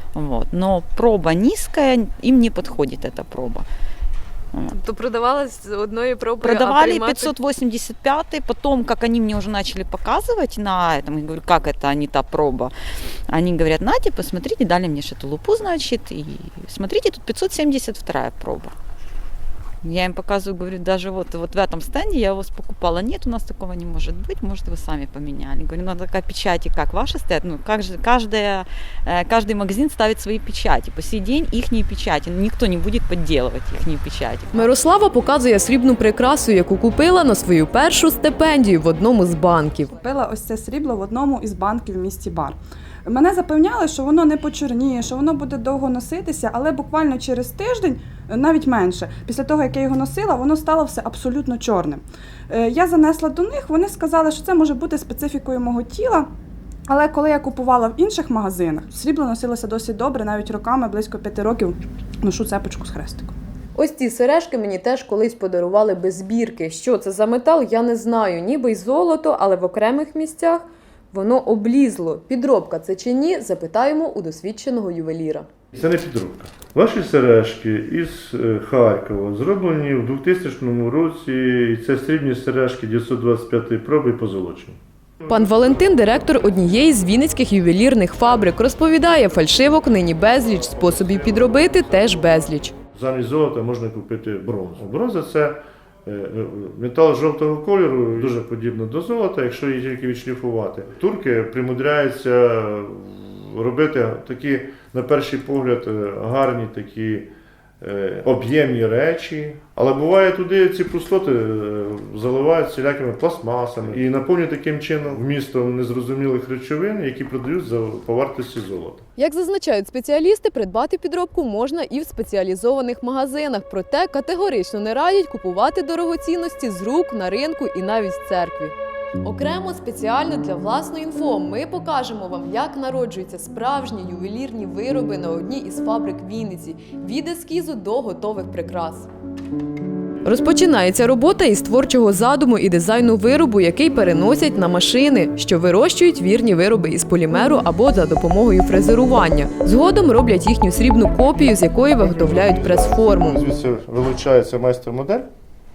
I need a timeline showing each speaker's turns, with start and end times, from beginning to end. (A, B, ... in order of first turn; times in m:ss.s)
0:00.1-0:03.6 A
0:04.7-0:07.3 B
0:06.4-0:12.7 A
0:13.3-0:18.7 A
0:19.8-0:34.7 A
0:34.5-0:39.9 B
0:39.9-0:56.3 C
0:56.9-1:03.3 C
1:03.8-1:15.5 B
1:15.7-1:25.3 D
1:25.3-1:32.7 B
1:30.2-1:47.3 D
1:47.8-1:59.0 D
1:59.2-2:19.1 B
2:20.2-2:33.4 B
2:32.0-2:35.3 D